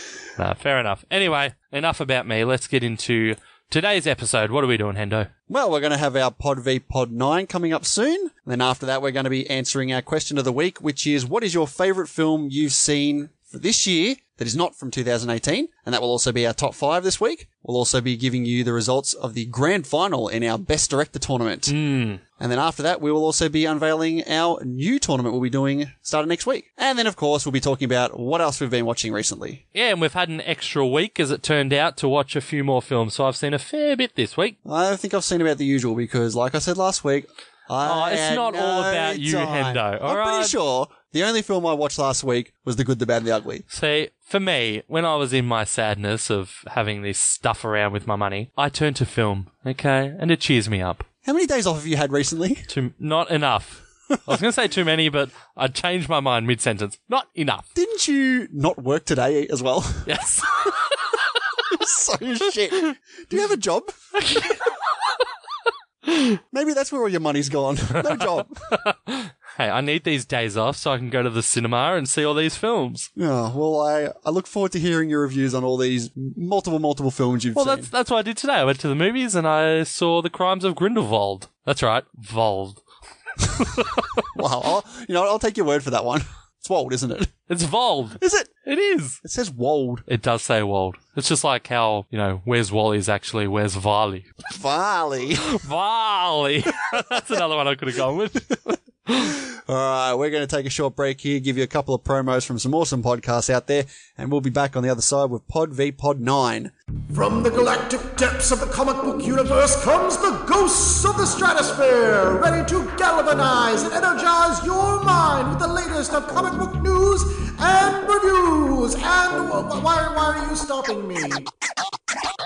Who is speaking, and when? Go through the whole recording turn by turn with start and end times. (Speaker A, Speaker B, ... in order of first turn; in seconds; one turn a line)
Speaker A: 0.4-5.3
Speaker B: 5.5-21.8
Speaker A: 21.7-22.2
Speaker B: 22.4-29.6
Speaker A: 29.7-34.6
Speaker B: 34.6-43.6
Speaker A: 37.8-40.5
Speaker A: 43.7-51.0
Speaker B: 51.2-52.7
Speaker A: 52.7-57.6
Speaker B: 57.7-60.1
Speaker A: 60.1-60.7
Speaker B: 61.6-63.9
Speaker A: 64.2-64.6
Speaker B: 66.5-68.5
Speaker A: 68.7-73.1
Speaker B: 73.2-77.9
Speaker A: 77.5-82.8
Speaker A: 83.6-84.0
Speaker B: 84.3-87.3
Speaker A: 87.5-89.2
Speaker B: 88.2-88.5
Speaker B: 89.2-90.0
Speaker A: 90.1-94.2
Speaker B: 94.4-95.5
Speaker A: 95.4-99.3
Speaker B: 99.5-106.7
Speaker C: 107.1-121.5